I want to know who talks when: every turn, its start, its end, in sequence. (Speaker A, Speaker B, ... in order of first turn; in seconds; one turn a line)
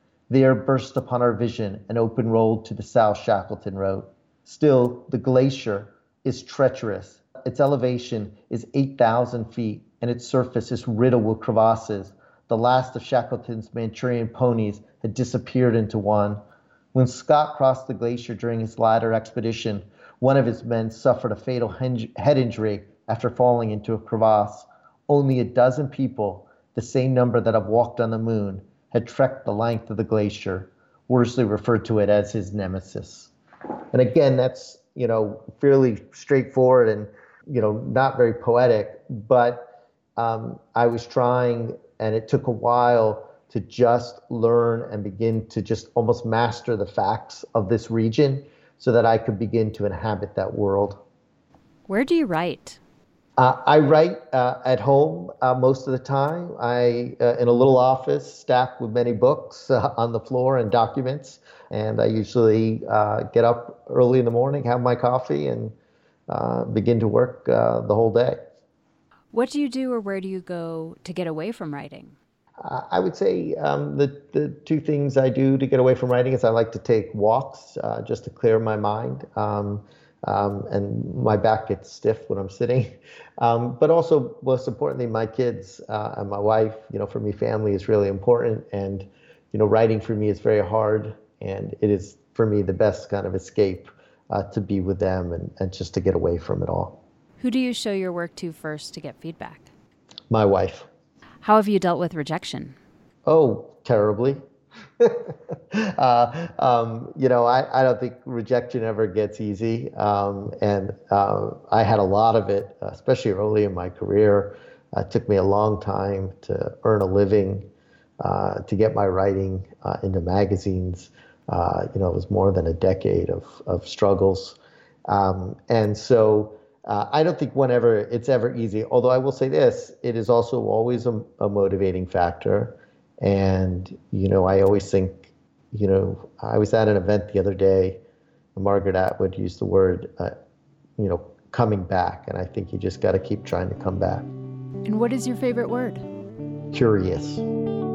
Speaker A: 0.3-16.4
Speaker A: 16.9-33.3
Speaker A: 33.9-51.0
Speaker B: 51.9-52.8
Speaker A: 53.4-65.7
Speaker A: 66.3-68.4
Speaker B: 69.3-72.2
Speaker A: 72.6-97.0
Speaker B: 97.4-99.7
Speaker A: 100.3-100.9
Speaker B: 101.4-102.8
Speaker A: 103.3-104.4
Speaker A: 105.0-117.7
Speaker A: 118.2-138.0
Speaker A: 138.6-140.3
Speaker A: 141.0-144.3
Speaker B: 144.8-146.0
Speaker A: 146.7-147.4